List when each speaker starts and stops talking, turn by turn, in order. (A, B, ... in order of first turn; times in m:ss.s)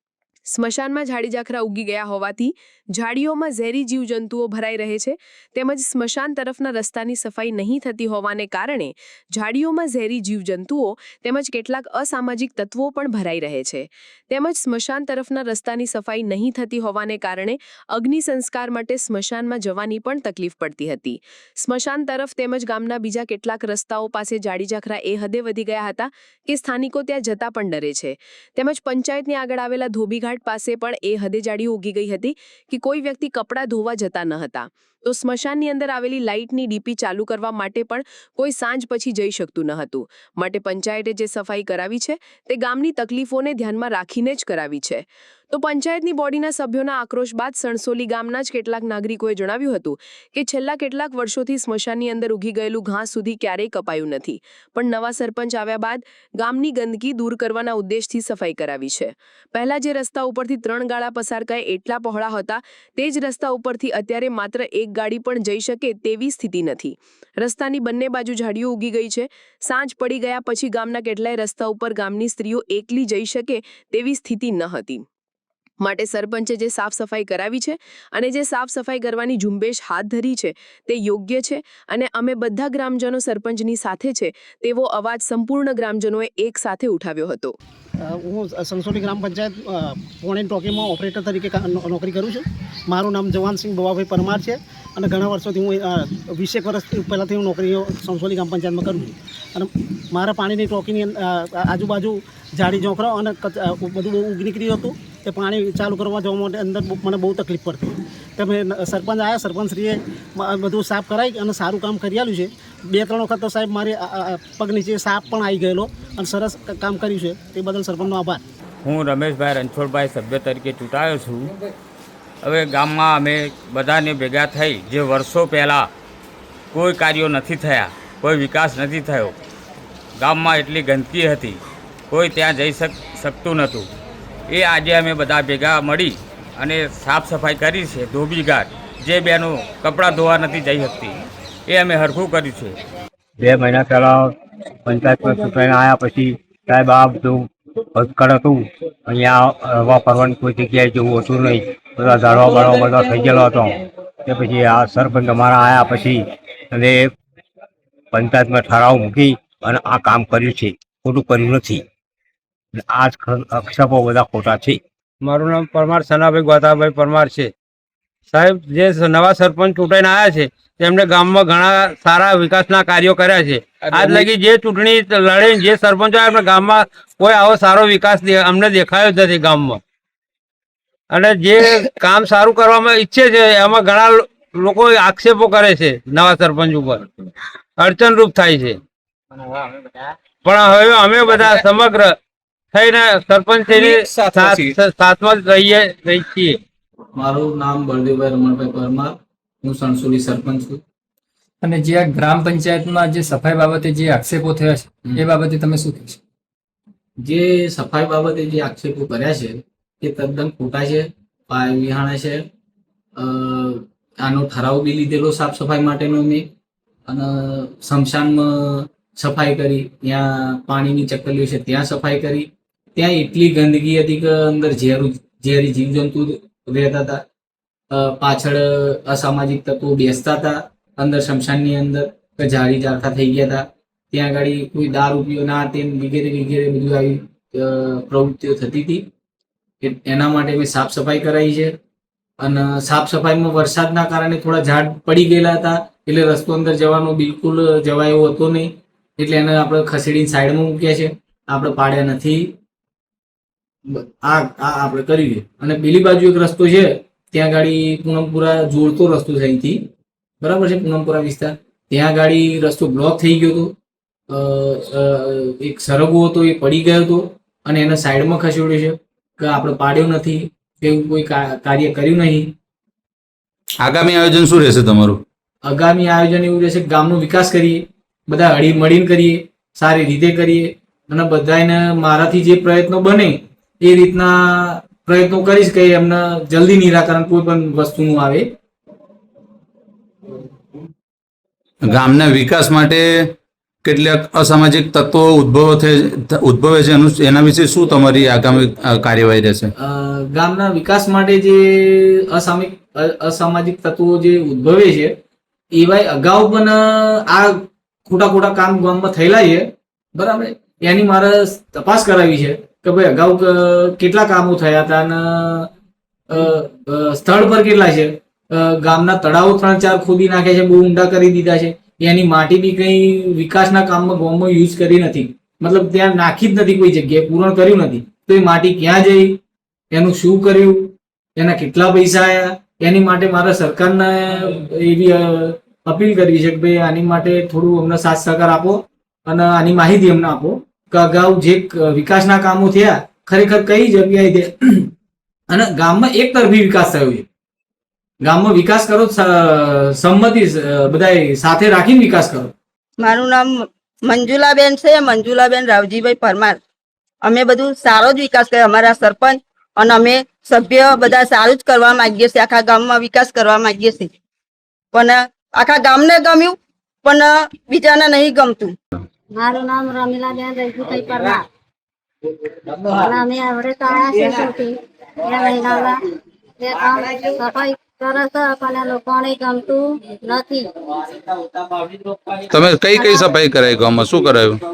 0:00.5-1:15.0 A
1:15.8-1:27.6 A
1:28.1-1:58.4 B
1:58.8-2:01.5 C
2:02.4-2:05.9 C
2:06.7-2:09.3 C
2:10.2-2:13.9 C
2:14.5-2:22.8 C
2:23.4-2:24.3 D
2:24.8-2:37.1 D
2:38.1-2:41.8 D
2:42.9-2:44.8 D
2:45.2-2:47.5 E
2:48.3-2:59.8 E
3:01.1-3:07.0 E
3:07.8-3:08.8 E
3:10.4-3:12.2 E
3:12.7-3:16.6 E
3:17.2-3:20.8 F
3:21.6-3:26.2 G
3:27.2-3:32.4 F
3:33.2-3:36.4 F
3:37.1-3:47.2 F
3:47.9-3:59.0 F
3:59.8-4:01.7 F
4:02.4-4:12.4 F
4:13.9-4:19.8 F
4:20.4-4:23.7 F
4:24.3-4:32.5 F
4:33.8-4:35.2 H
4:35.6-4:48.5 F
4:51.8-4:59.7 H
4:59.8-5:05.1 F
5:05.7-5:07.5 F
5:08.0-5:15.7 F
5:16.3-5:29.4 F
5:29.9-5:44.9 F
5:45.5-5:47.2 F
5:48.2-5:52.5 F
5:53.0-5:56.6 I
5:57.2-6:04.1 I
6:04.9-6:08.7 I
6:09.4-6:11.4 J
6:12.8-6:16.0 J
6:14.1-6:14.4 I
6:16.6-6:20.7 J
6:22.5-6:24.6 H
6:22.8-6:23.4 J